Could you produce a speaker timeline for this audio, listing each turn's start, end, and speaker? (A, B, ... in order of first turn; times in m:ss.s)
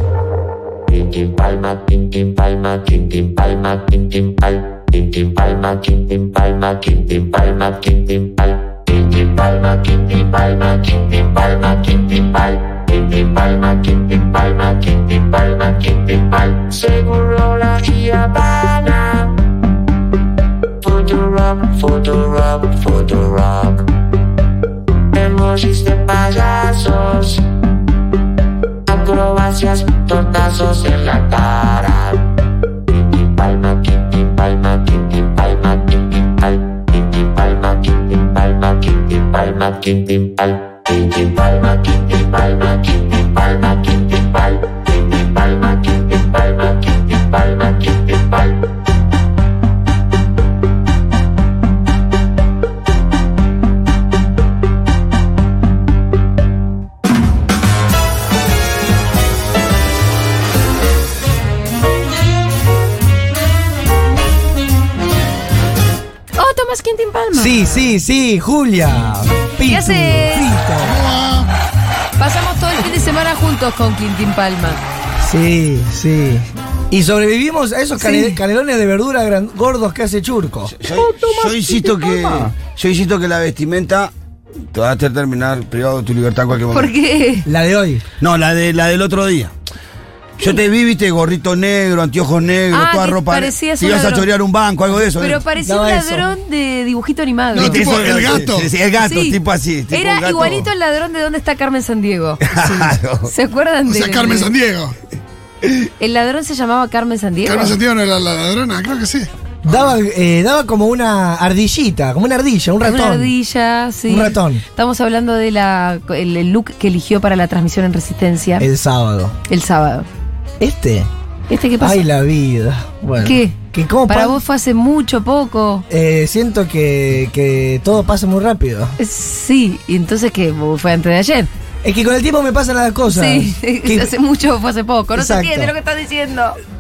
0:01.4-0:03.4 A
0:05.4-0:08.1 A
0:09.1-0:12.8 A
0:13.4-0:19.0 A
0:20.8-0:23.8 A
0:25.2-0:27.3 A
0:28.9-0:32.0 A
0:33.4-0:35.6 A
0:37.4-0:37.9 A
0:38.6-0:43.1 A
1:06.4-1:07.7 B
1:07.3-1:11.0 C
1:09.6-1:10.5 B
1:10.8-1:11.5 D
1:12.2-1:14.8 B
1:15.2-1:20.7 C
1:18.0-1:18.4 B
1:20.8-1:24.1 E
1:24.7-1:26.9 E
1:26.7-1:27.5 B
1:27.4-1:28.0 C
1:28.2-1:29.5 E
1:30.4-1:35.4 E
1:32.7-1:34.3 B
1:35.2-1:37.8 B
1:35.6-1:36.3 C
1:37.5-1:38.7 D
1:37.6-1:40.7 E
1:39.0-1:39.4 B
1:39.9-1:42.4 B
1:42.5-1:43.3 E
1:42.6-1:42.9 D
1:43.2-1:44.5 B
1:43.8-1:45.0 D
1:46.0-1:47.8 B
1:47.4-1:49.9 D
1:49.6-1:53.3 C
1:52.8-1:58.7 B
1:54.1-1:54.6 C
1:58.6-1:59.4 C
1:59.5-2:00.1 B
2:00.6-2:01.1 C
2:01.5-2:02.0 B
2:01.8-2:04.4 C
2:03.2-2:05.8 B
2:05.9-2:08.9 C
2:09.0-2:11.5 B
2:11.8-2:14.1 C
2:13.1-2:16.6 B
2:15.1-2:15.7 C